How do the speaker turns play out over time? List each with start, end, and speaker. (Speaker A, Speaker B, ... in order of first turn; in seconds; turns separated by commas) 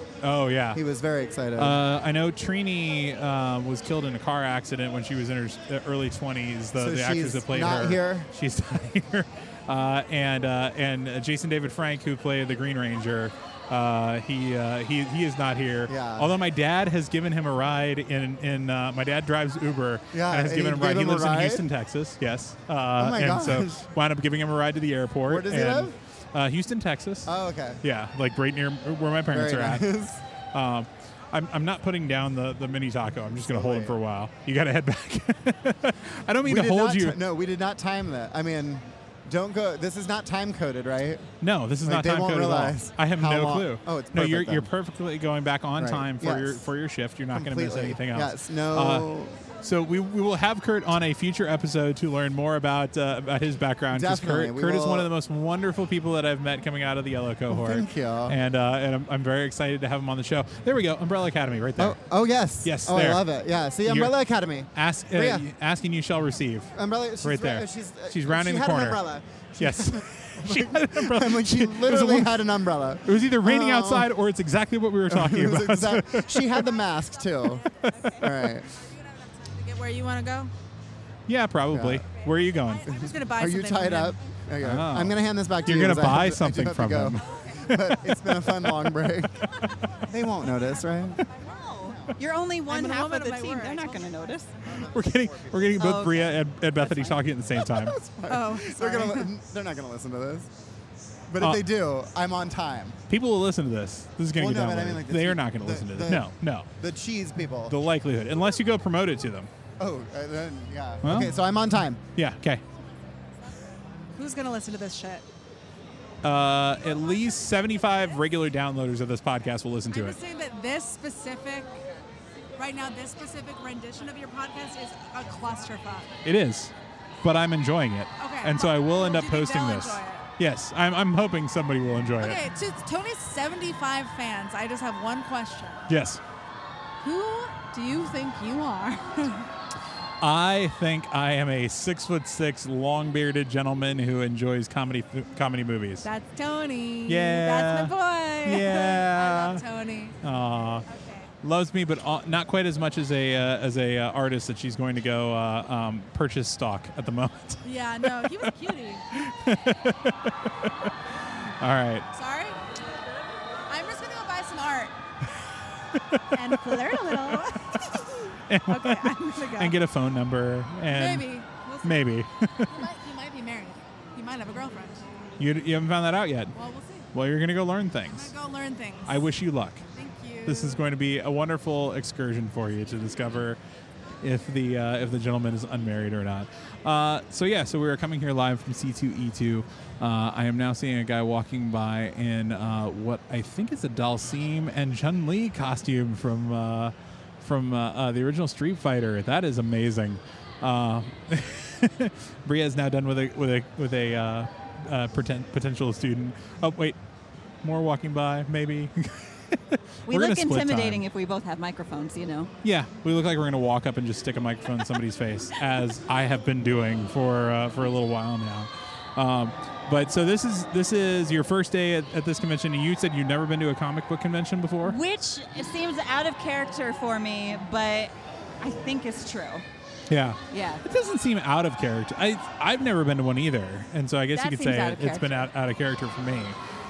Speaker A: 0.2-0.8, Speaker B: 0.7-1.8, Speaker A: 1.6-29.9, Speaker B: 6.8-8.3, Speaker B: 15.9-16.3, Speaker B: 20.1-21.7, Speaker B: 23.0-23.9, Speaker B: 25.3-25.9, Speaker B: 27.3-27.8, Speaker B: 29.3-30.2, Speaker A: 30.5-37.2, Speaker B: 33.5-34.0, Speaker B: 36.4-41.3, Speaker A: 41.4-49.1, Speaker B: 41.9-44.7, Speaker B: 45.8-46.7, Speaker B: 47.3-49.3, Speaker A: 49.6-62.0, Speaker B: 53.9-55.1, Speaker B: 57.5-58.4, Speaker B: 61.8-65.5, Speaker A: 62.6-63.2, Speaker A: 63.9-64.1, Speaker A: 64.8-69.0, Speaker B: 66.8-74.1, Speaker A: 69.6-72.5, Speaker A: 73.0-76.7, Speaker B: 75.1-78.7, Speaker C: 77.8-80.5, Speaker A: 81.3-82.9, Speaker B: 81.7-82.1, Speaker C: 82.7-84.2, Speaker B: 82.9-89.5, Speaker A: 84.6-88.0, Speaker B: 90.0-91.2, Speaker D: 91.5-94.5, Speaker B: 91.8-92.2, Speaker C: 92.7-94.2, Speaker B: 94.6-96.0, Speaker A: 94.9-98.0, Speaker D: 95.8-96.3, Speaker D: 96.9-97.2, Speaker B: 97.6-100.5, Speaker C: 98.3-99.3, Speaker B: 101.3-103.0, Speaker A: 103.1-106.7, Speaker B: 104.3-107.8, Speaker A: 107.7-109.5, Speaker B: 109.8-112.0, Speaker A: 111.0-111.4, Speaker A: 112.2-112.6, Speaker C: 114.2-115.2, Speaker A: 116.2-120.2, Speaker C: 119.9-121.7, Speaker C: 122.6-126.1, Speaker A: 126.2-132.4, Speaker C: 128.2-130.3, Speaker C: 132.2-135.8, Speaker A: 135.9-136.2, Speaker C: 137.0-139.5, Speaker A: 140.2-146.1, Speaker C: 146.0-150.2, Speaker A: 147.1-149.6, Speaker A: 150.2-150.9, Speaker C: 150.9-151.3, Speaker A: 151.4-158.5, Speaker C: 157.6-159.1, Speaker A: 159.1-160.9, Speaker A: 161.6-162.1, Speaker C: 162.1-162.6, Speaker C: 163.7-164.9, Speaker A: 166.1-167.5, Speaker C: 166.3-169.8, Speaker A: 168.5-171.3, Speaker C: 170.9-172.1, Speaker A: 171.8-172.7, Speaker C: 172.6-175.0, Speaker A: 175.4-176.6, Speaker C: 176.6-177.1, Speaker A: 177.1-178.3, Speaker C: 178.1-179.3, Speaker A: 179.1-179.8, Speaker C: 179.9-180.8, Speaker A: 180.4-183.6, Speaker A: 184.2-207.0, Speaker A: 207.6-211.0, Speaker D: 210.1-212.5, Speaker A: 212.6-225.0, Speaker D: 224.8-229.7, Speaker A: 230.1-236.6, Speaker D: 230.5-230.8, Speaker D: 234.3-235.4